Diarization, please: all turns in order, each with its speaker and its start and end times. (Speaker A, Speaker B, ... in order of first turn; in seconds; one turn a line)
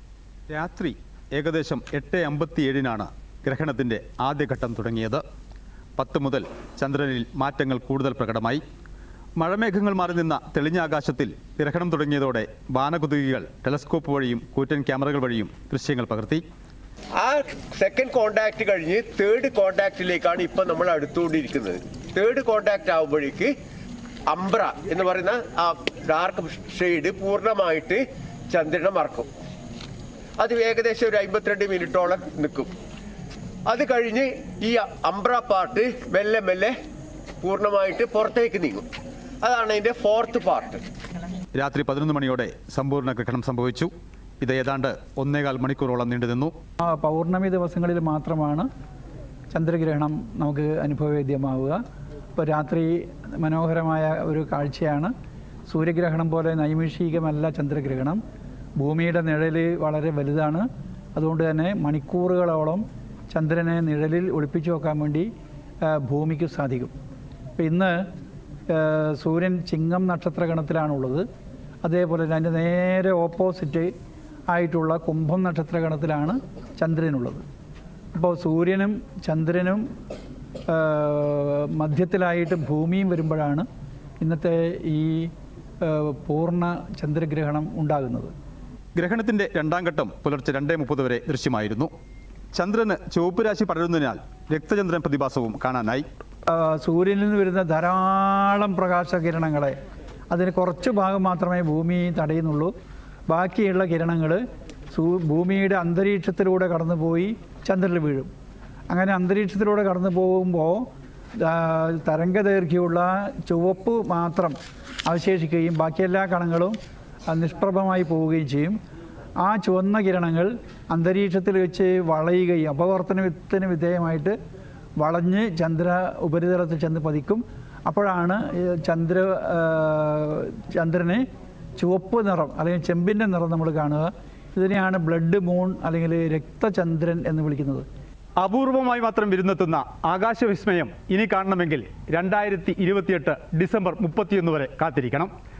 Speaker A: 0.5-5.2
Speaker A: 6.0-8.6
Speaker A: 9.4-16.4
Speaker B: 17.1-23.5
Speaker B: 24.3-29.3
Speaker B: 30.4-32.7
Speaker B: 33.7-36.7
Speaker B: 37.4-38.9
Speaker B: 39.4-40.8
Speaker A: 41.5-46.5
Speaker C: 46.8-48.7
Speaker C: 49.5-51.8
Speaker C: 52.3-55.1
Speaker C: 55.7-58.2
Speaker C: 58.8-65.3
Speaker C: 65.8-66.9
Speaker C: 67.6-68.0
Speaker C: 68.7-71.2
Speaker C: 71.8-73.9
Speaker C: 74.5-77.4
Speaker C: 78.1-79.8
Speaker C: 80.7-83.7
Speaker C: 84.2-85.3
Speaker C: 85.8-88.3
Speaker A: 89.0-91.9
Speaker A: 92.5-96.0
Speaker C: 96.5-99.8
Speaker C: 100.3-102.7
Speaker C: 103.3-108.3
Speaker C: 108.9-110.9
Speaker C: 111.4-116.8
Speaker C: 117.3-118.8
Speaker C: 119.4-124.3
Speaker C: 125.0-131.2
Speaker C: 131.8-137.8
Speaker A: 138.4-145.3